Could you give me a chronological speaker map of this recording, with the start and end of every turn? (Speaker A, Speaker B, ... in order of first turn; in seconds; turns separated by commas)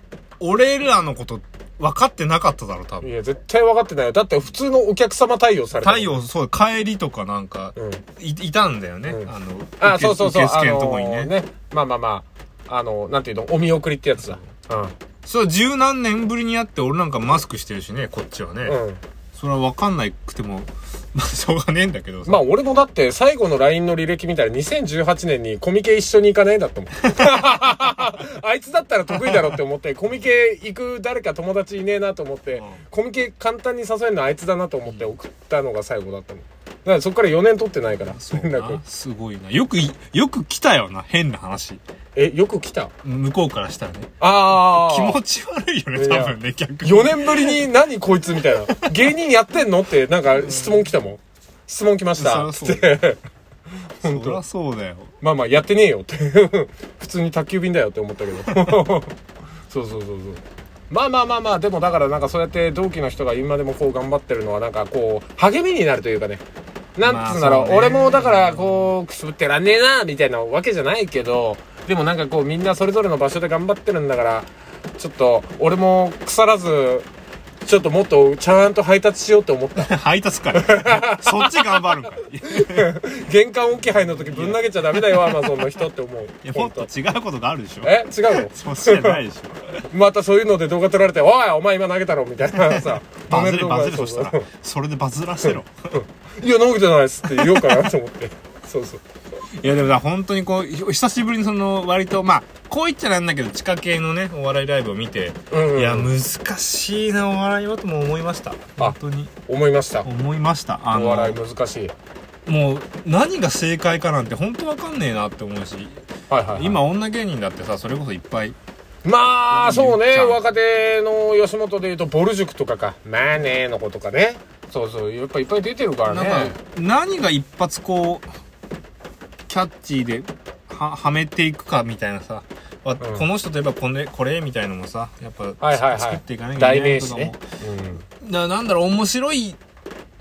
Speaker A: 0.4-3.1, Speaker B: 3.0-6.2, Speaker A: 5.8-11.3, Speaker B: 7.8-8.0, Speaker B: 9.1-14.9, Speaker A: 15.2-18.8, Speaker B: 18.7-19.0, Speaker A: 19.3-22.4, Speaker B: 22.2-38.8, Speaker A: 29.1-29.4, Speaker A: 32.5-32.8, Speaker A: 38.1-41.8, Speaker B: 42.1-42.9, Speaker A: 43.0-47.6, Speaker B: 44.2-45.2, Speaker B: 45.9-53.2, Speaker A: 50.4-50.8, Speaker A: 52.2-53.0, Speaker B: 54.0-54.4, Speaker A: 54.0-55.1, Speaker B: 55.2-59.1, Speaker B: 59.7-66.4, Speaker B: 67.0-77.1, Speaker A: 67.0-68.9, Speaker B: 77.6-79.9, Speaker A: 79.8-82.9, Speaker B: 80.5-81.8, Speaker B: 82.5-86.9, Speaker A: 84.1-85.2, Speaker A: 86.4-89.8, Speaker B: 87.8-89.2, Speaker B: 89.9-94.5, Speaker A: 92.5-95.7, Speaker B: 95.4-99.0, Speaker A: 97.4-97.8, Speaker A: 99.6-109.3, Speaker B: 105.5-106.1, Speaker B: 109.5-110.0, Speaker A: 110.0-111.4, Speaker B: 110.9-111.9, Speaker A: 112.5-116.0, Speaker B: 116.3-116.8, Speaker A: 116.5-118.5, Speaker B: 119.0-126.6, Speaker A: 119.5-120.4, Speaker A: 126.1-128.3, Speaker A: 129.5-137.4, Speaker B: 133.0-133.2, Speaker B: 135.6-138.0, Speaker A: 138.2-139.6